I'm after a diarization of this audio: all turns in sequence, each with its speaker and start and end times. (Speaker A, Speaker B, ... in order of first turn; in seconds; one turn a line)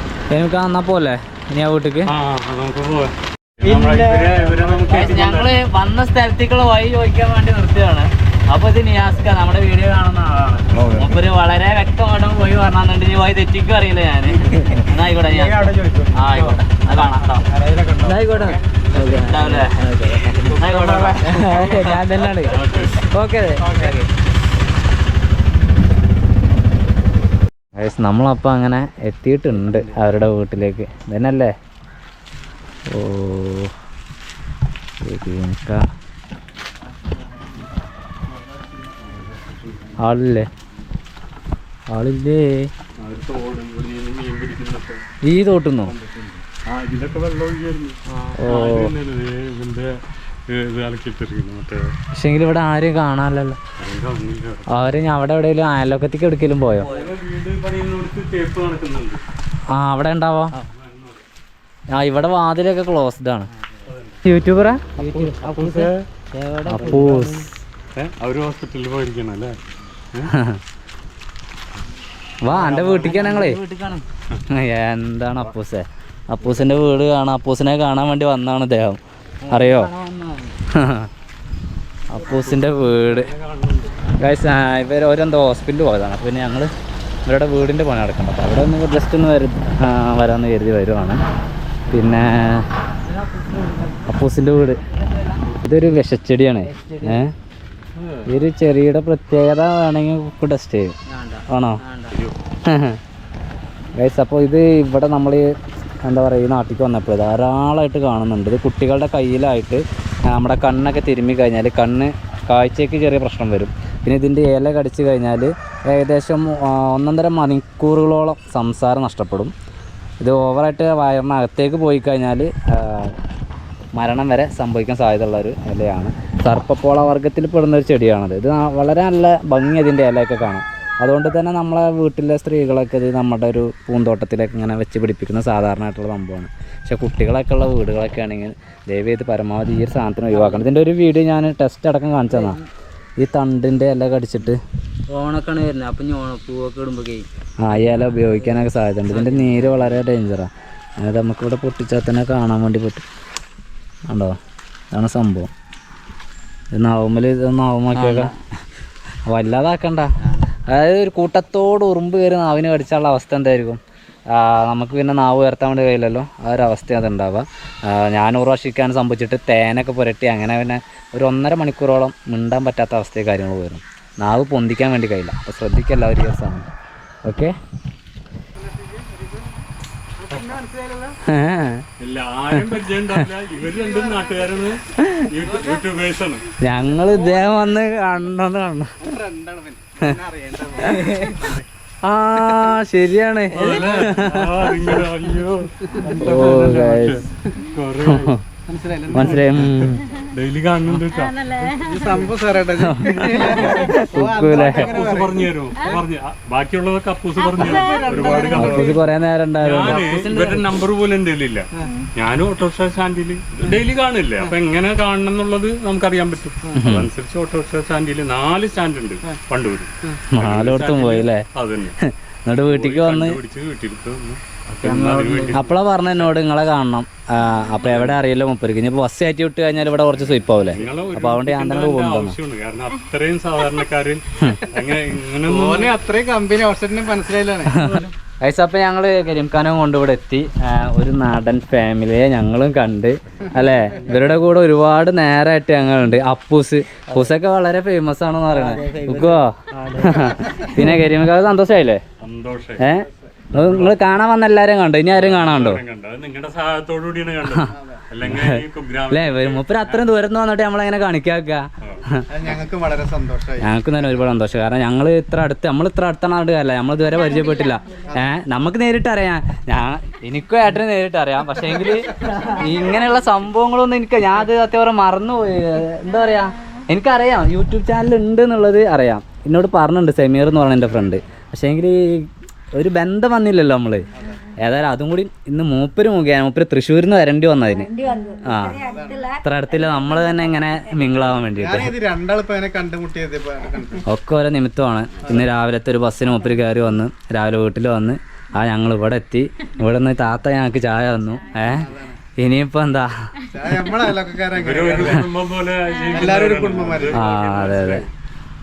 Speaker A: 0.3-2.1
Speaker B: 2.0-5.5
Speaker C: 3.7-4.8
Speaker A: 4.9-17.5
Speaker D: 14.5-14.8
Speaker C: 15.2-16.6
Speaker C: 17.5-18.5
Speaker D: 18.0-22.6
Speaker A: 18.9-22.6
Speaker B: 20.3-21.9
Speaker B: 22.4-23.1
Speaker D: 23.1-24.0
Speaker A: 23.1-24.0
Speaker B: 23.6-24.0
Speaker A: 27.7-31.5
Speaker D: 29.5-30.0
Speaker A: 32.9-33.7
Speaker A: 35.0-35.9
Speaker A: 40.0-40.5
Speaker A: 41.9-42.7
Speaker B: 43.0-45.0
Speaker A: 45.2-45.9
Speaker B: 45.9-51.9
Speaker A: 48.4-48.9
Speaker A: 52.1-53.6
Speaker B: 53.8-54.8
Speaker A: 54.7-56.9
Speaker D: 56.8-57.1
Speaker B: 56.9-59.2
Speaker A: 59.7-60.6
Speaker B: 60.7-61.2
Speaker A: 61.9-63.5
Speaker B: 63.9-64.2
Speaker A: 64.2-65.0
Speaker D: 65.0-67.5
Speaker B: 65.0-66.0
Speaker A: 66.7-67.5
Speaker B: 67.9-69.6
Speaker A: 70.3-70.6
Speaker A: 72.4-73.6
Speaker D: 72.5-74.0
Speaker A: 74.5-79.9
Speaker D: 79.4-80.6
Speaker A: 80.7-81.1
Speaker A: 82.1-83.3
Speaker B: 82.2-84.0
Speaker A: 84.2-86.7
Speaker A: 87.2-91.2
Speaker A: 91.9-92.7
Speaker D: 93.0-94.0
Speaker A: 94.0-94.8
Speaker D: 94.8-95.5
Speaker A: 95.6-97.3
Speaker D: 96.6-97.2
Speaker B: 97.9-98.3
Speaker A: 98.2-100.9
Speaker D: 101.1-102.2
Speaker A: 101.5-101.8
Speaker B: 102.1-102.4
Speaker A: 102.6-103.0
Speaker A: 104.0-119.5
Speaker A: 120.2-123.2
Speaker A: 123.9-142.6
Speaker D: 140.3-140.7
Speaker D: 142.3-142.7
Speaker A: 143.2-144.6
Speaker D: 145.1-150.0
Speaker A: 147.6-153.0
Speaker A: 154.1-154.4
Speaker A: 154.9-155.5
Speaker A: 156.7-158.3
Speaker D: 157.9-158.4
Speaker A: 159.3-160.1
Speaker D: 160.2-160.5
Speaker A: 160.7-176.7
Speaker A: 177.2-177.6
Speaker C: 178.6-179.4
Speaker C: 180.2-181.2
Speaker A: 181.2-181.8
Speaker B: 182.0-186.4
Speaker A: 182.5-183.2
Speaker C: 183.6-184.8
Speaker A: 184.9-185.3
Speaker C: 185.4-185.8
Speaker A: 186.6-189.1
Speaker C: 187.0-187.5
Speaker C: 189.0-191.5
Speaker D: 190.8-191.5
Speaker B: 191.4-191.6
Speaker A: 192.0-194.7
Speaker B: 193.5-198.3
Speaker C: 196.0-197.6
Speaker A: 196.2-197.2
Speaker A: 198.0-198.4
Speaker C: 198.7-199.9
Speaker A: 199.1-200.0
Speaker B: 199.1-201.5
Speaker C: 201.6-206.0
Speaker A: 202.8-204.9
Speaker B: 204.5-209.0
Speaker C: 207.5-209.0
Speaker D: 208.1-208.8
Speaker A: 208.5-210.0
Speaker B: 209.6-221.9
Speaker D: 209.7-210.7
Speaker A: 216.7-217.1
Speaker A: 220.3-221.4
Speaker A: 222.0-223.4
Speaker B: 222.6-226.3
Speaker D: 224.8-225.6
Speaker C: 224.8-225.3
Speaker A: 225.5-232.3
Speaker B: 227.8-228.2
Speaker B: 230.3-235.9
Speaker C: 235.4-238.0
Speaker A: 237.7-252.0
Speaker D: 243.7-244.3
Speaker D: 247.1-247.3
Speaker D: 248.5-251.1
Speaker B: 252.2-252.9
Speaker A: 252.8-255.8
Speaker B: 253.5-254.1
Speaker B: 255.1-260.0
Speaker C: 257.7-258.0
Speaker A: 258.2-262.3
Speaker C: 262.3-263.7
Speaker A: 263.6-291.9
Speaker D: 272.2-272.6
Speaker C: 288.8-289.3
Speaker C: 291.6-294.0
Speaker A: 294.1-303.5
Speaker C: 301.6-302.2
Speaker C: 303.5-305.3
Speaker B: 304.5-308.1
Speaker C: 306.1-307.1
Speaker A: 307.1-308.1